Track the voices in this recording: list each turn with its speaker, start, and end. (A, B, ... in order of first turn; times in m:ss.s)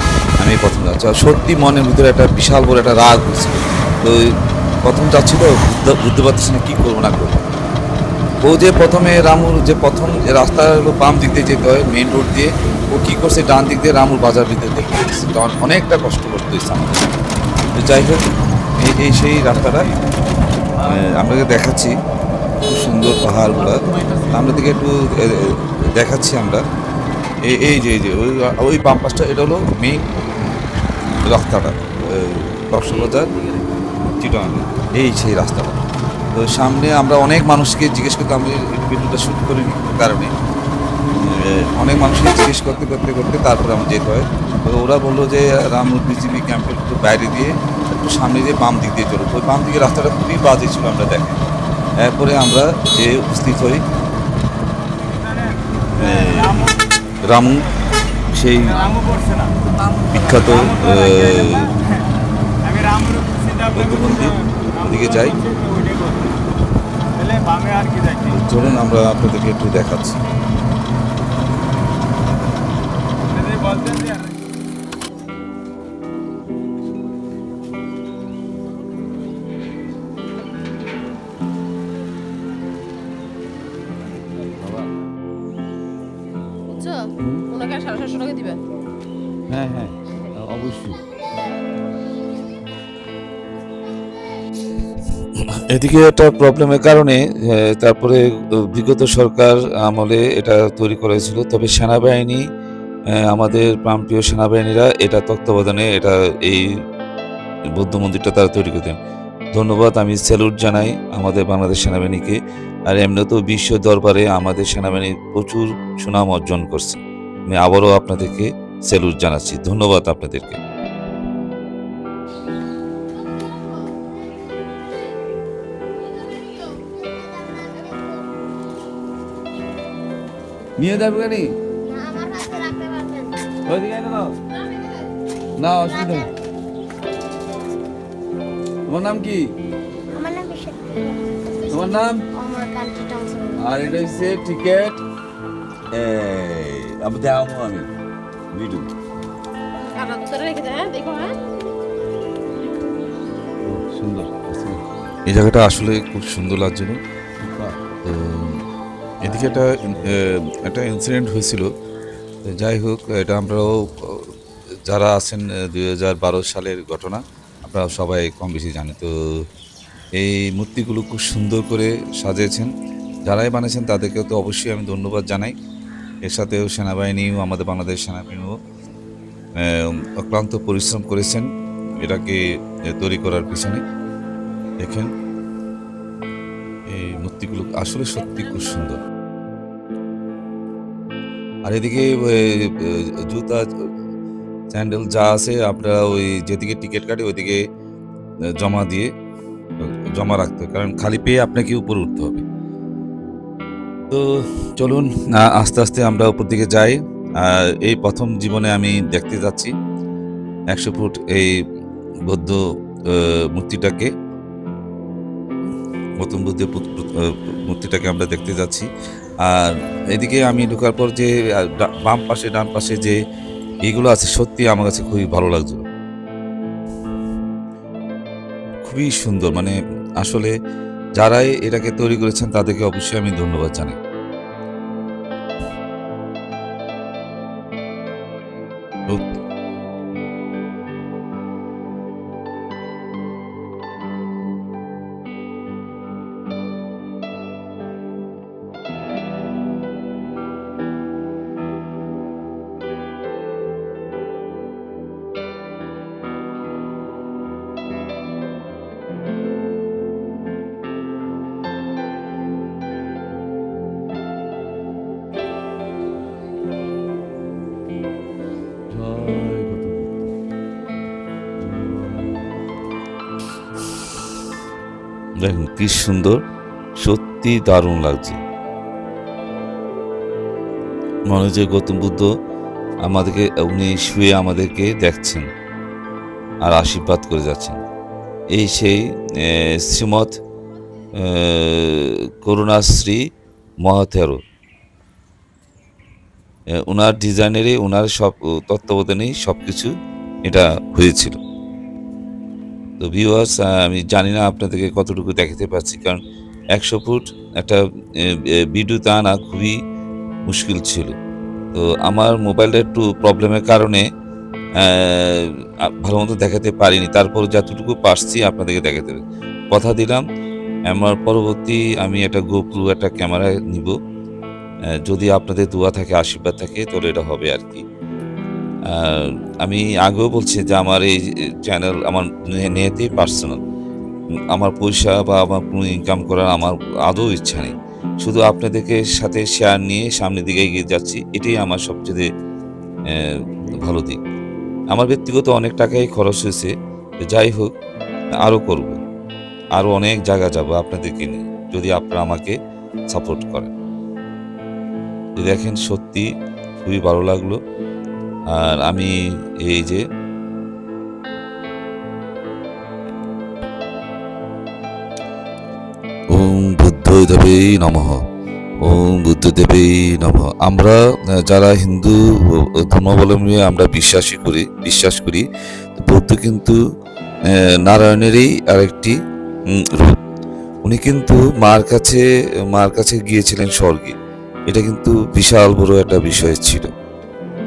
0:00.4-0:04.3 A
0:04.8-0:07.4 A
0:08.4-0:17.1 A
0:17.7-0:18.2 A
0:18.8-0:19.9 A
0:19.6-0:19.9 B
0:20.8-0:21.1 B
0:20.8-0:21.9 A
0:22.6-0:26.6 A
0:23.2-0:24.8 B
0:27.4-0:30.0 A
0:31.2-0:33.3 A
0:32.9-0:33.6 B
0:34.2-0:35.8 A
0:36.3-0:40.3 A
0:41.2-0:51.4 A
0:52.0-0:53.8 A
0:54.8-0:56.8 C
0:56.0-0:56.7 A
0:57.2-0:57.7 A
0:58.3-0:58.8 A
0:58.6-0:59.5 C
0:59.5-1:00.7 B
1:00.1-1:01.7 A
1:00.4-1:02.0 C
1:02.6-1:06.4 C
1:03.7-1:05.4 A
1:07.2-1:08.4 C
1:08.3-1:10.2 A
1:13.3-1:14.4 C
1:24.6-1:24.9 B
1:26.7-1:28.6 D
1:27.2-1:27.4 B
1:29.5-1:31.0 B
1:35.5-1:42.4 A
1:43.1-1:46.7 A
1:47.7-1:49.0 A
1:49.5-1:52.4 A
1:52.9-2:00.6 A
2:03.4-2:04.0 E
2:06.1-2:08.4 E
2:10.8-2:11.5 B
2:11.8-2:13.5 E
2:13.6-2:14.4 B
2:14.7-2:15.1 E
2:15.6-2:16.3 B
2:15.8-2:16.3 E
2:18.9-2:19.5 B
2:20.1-2:23.6 E
2:21.7-2:22.2 B
2:23.6-2:25.0 B
2:25.9-2:27.9 B
2:28.5-2:28.9 B
2:29.8-2:31.3 D
2:33.6-2:34.8 B
2:35.3-2:37.0 A
2:37.4-2:37.8 B
2:38.0-2:38.6 A
2:39.2-2:41.7 A
2:39.2-2:40.2 B
2:42.4-2:44.3 A
2:44.8-2:49.1 A
2:50.2-2:52.7 A
2:53.2-2:55.5 A
2:56.2-2:58.6 A
2:59.6-3:03.8 A
3:04.8-3:05.1 A
3:06.9-3:09.0 A
3:11.6-3:13.7 A
3:14.7-3:17.6 A
3:18.5-3:19.1 A
3:19.8-3:22.4 A
3:24.1-3:29.7 A
3:30.7-3:31.5 A
3:32.2-3:34.1 A
3:36.2-3:38.9 A
3:39.4-3:43.2 A
3:43.8-3:45.8 A
3:48.8-3:50.5 A
3:51.2-3:54.0 A
3:59.1-3:59.4 A
4:28.9-4:30.2 B
4:31.6-4:32.8 B
4:35.4-4:36.4 A
4:37.0-4:38.4 A
4:41.3-4:42.3 A
4:43.0-4:45.4 A
4:46.6-4:47.8 A
4:48.5-4:50.4 A
4:51.2-4:53.2 A
4:53.8-4:54.4 A
4:56.8-4:59.9 A
5:00.5-5:01.4 A
5:03.0-5:06.2 A
5:06.7-5:09.8 A
5:10.5-5:11.1 A
5:11.7-5:14.0 A
5:14.8-5:20.2 A
5:20.9-5:24.0 A
5:25.0-5:27.8 A
5:28.9-5:33.6 A
5:34.5-5:42.3 A
5:43.1-5:44.2 A
5:44.9-5:46.7 A
5:47.2-5:47.7 A
5:48.4-5:49.0 A
5:49.8-5:52.6 A
5:53.1-5:53.7 A
5:55.4-5:56.3 A
5:56.8-5:57.6 A
5:58.5-6:00.0 A
6:06.3-6:08.2 A
6:08.8-6:15.4 A
6:16.0-6:16.8 A
6:17.5-6:19.2 A
6:19.7-6:20.2 A
6:20.8-6:24.1 A
6:24.7-6:26.9 A